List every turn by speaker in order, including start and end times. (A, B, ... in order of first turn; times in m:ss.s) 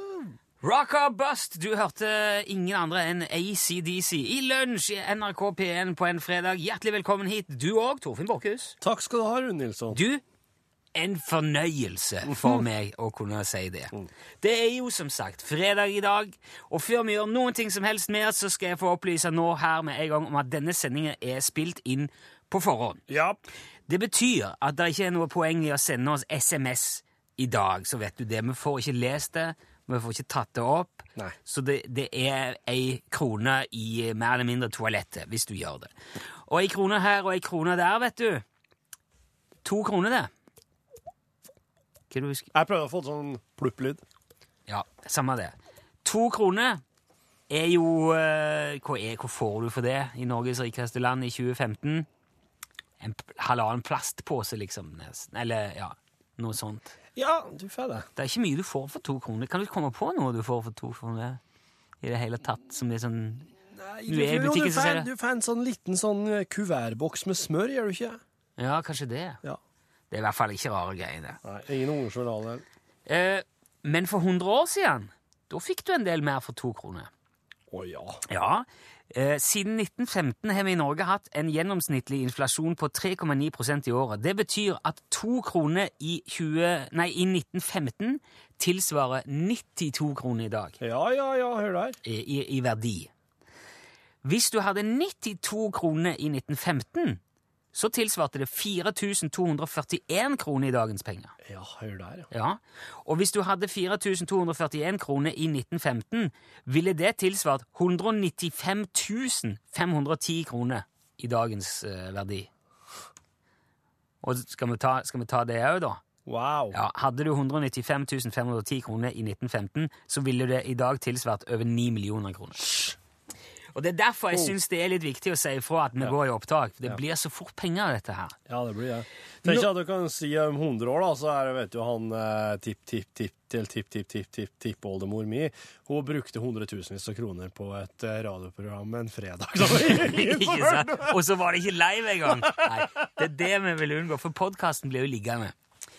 0:00.6-0:08.8 A
0:08.8-0:10.0 B
0:09.9-0:10.2 A
0:11.0-0:23.0 A
0:23.1-0:23.4 B
0:23.9-0:35.9 A
0:36.5-0:38.4 A
0:39.6-0:40.3 A
0:42.1-0:42.5 A
0:42.5-0:44.0 B
0:44.7-0:46.8 A
0:47.5-0:52.1 A
0:53.0-0:57.0 A
0:57.2-0:58.1 B
0:58.2-1:01.4 A
1:02.0-1:03.5 A
1:03.7-1:08.2 B
1:04.1-1:05.1 A
1:08.6-1:09.4 A
1:10.1-1:11.4 A
1:11.4-1:12.6 B
1:13.1-1:17.1 A
1:17.7-1:18.2 B
1:18.3-1:30.8 A
1:30.8-1:32.0 B
1:32.0-1:33.1 A
1:34.2-1:37.2 A
1:37.7-1:41.3 A
1:41.4-1:42.3 B
1:42.3-1:52.5 A
1:54.2-1:56.0 A
1:56.3-1:56.8 B
1:56.7-2:02.9 A
2:03.7-2:08.4 A
2:08.5-2:21.2 B
2:19.7-2:25.6 A
2:22.3-2:22.9 B